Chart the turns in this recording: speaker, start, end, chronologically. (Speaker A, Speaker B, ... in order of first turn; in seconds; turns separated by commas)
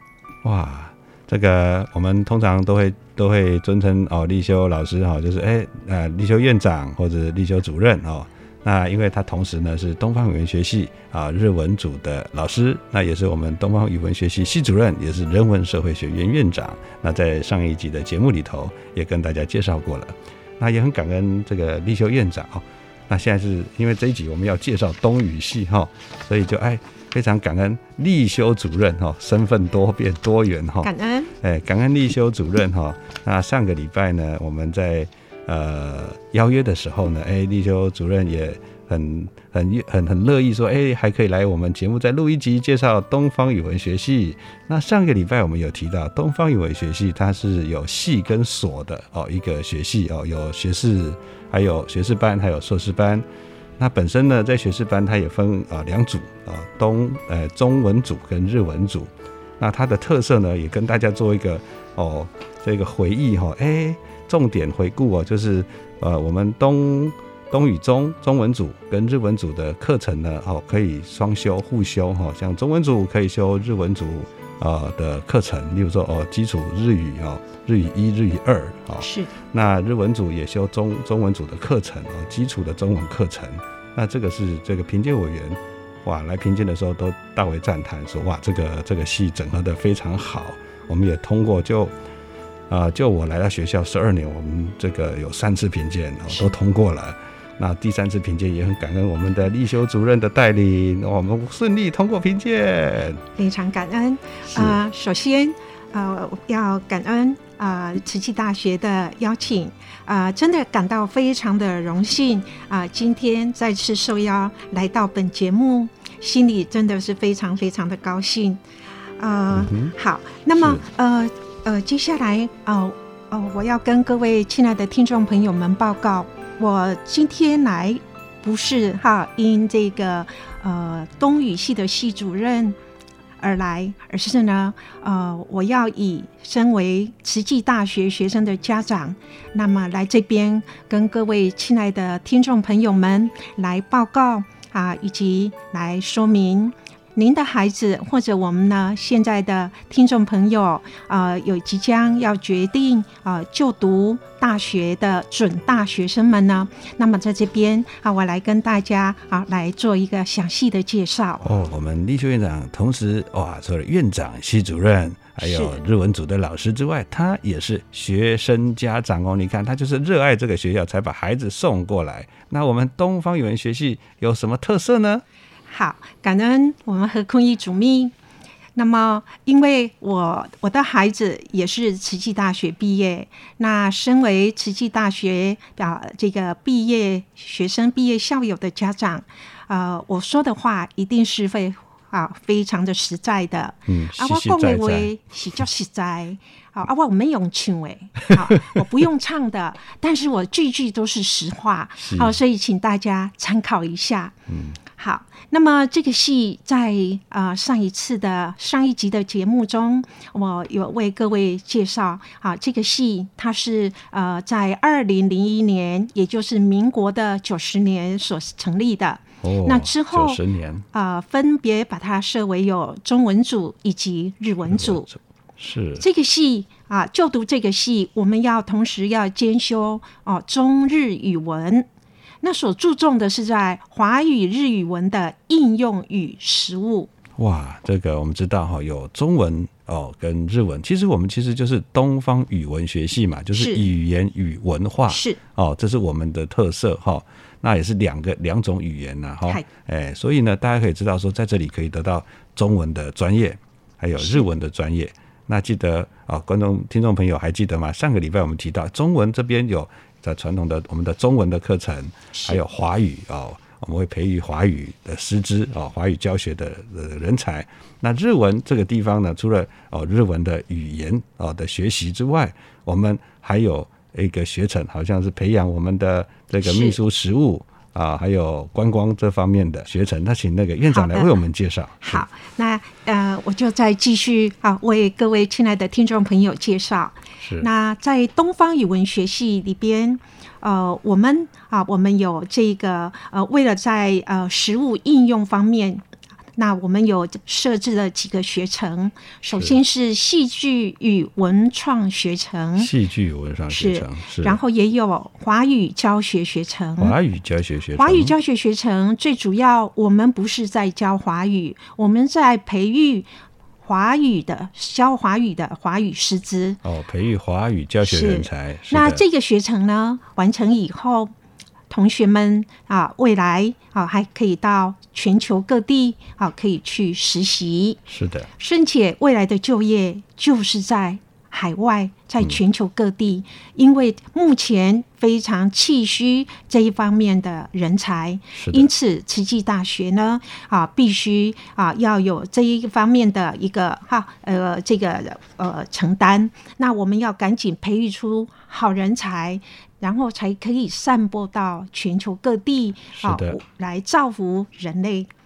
Speaker A: 0.4-53.3, Speaker B: 30.8-31.3, Speaker A: 53.8-91.9, Speaker B: 79.0-79.3, Speaker A: 92.7-103.2, Speaker B: 103.4-118.6, Speaker A: 104.5-104.8, Speaker B: 119.2-132.8, Speaker A: 119.5-119.9, Speaker A: 120.5-120.8, Speaker B: 133.4-161.5, Speaker A: 161.4-175.2, Speaker B: 165.4-165.8, Speaker B: 175.7-178.1, Speaker B: 178.8-204.3, Speaker A: 193.9-195.1, Speaker A: 202.0-202.4, Speaker A: 204.5-204.8, Speaker B: 205.0-220.4, Speaker A: 219.4-220.9, Speaker B: 220.9-225.1, Speaker A: 224.7-226.0, Speaker B: 226.0-231.9, Speaker B: 232.4-237.1, Speaker A: 237.4-282.3, Speaker B: 243.5-243.9, Speaker B: 245.1-245.4, Speaker B: 254.2-254.4, Speaker B: 262.3-262.6, Speaker B: 276.6-277.0, Speaker B: 280.9-281.4, Speaker B: 282.0-296.0, Speaker A: 287.4-287.7, Speaker B: 296.6-302.9, Speaker A: 302.8-304.6, Speaker B: 303.7-307.1, Speaker A: 307.0-308.3, Speaker B: 307.9-313.3, Speaker B: 313.8-316.8, Speaker A: 316.8-319.2, Speaker B: 318.0-321.3, Speaker B: 321.9-328.0, Speaker A: 328.1-328.5, Speaker B: 328.6-355.3, Speaker A: 338.6-338.9, Speaker A: 353.2-353.6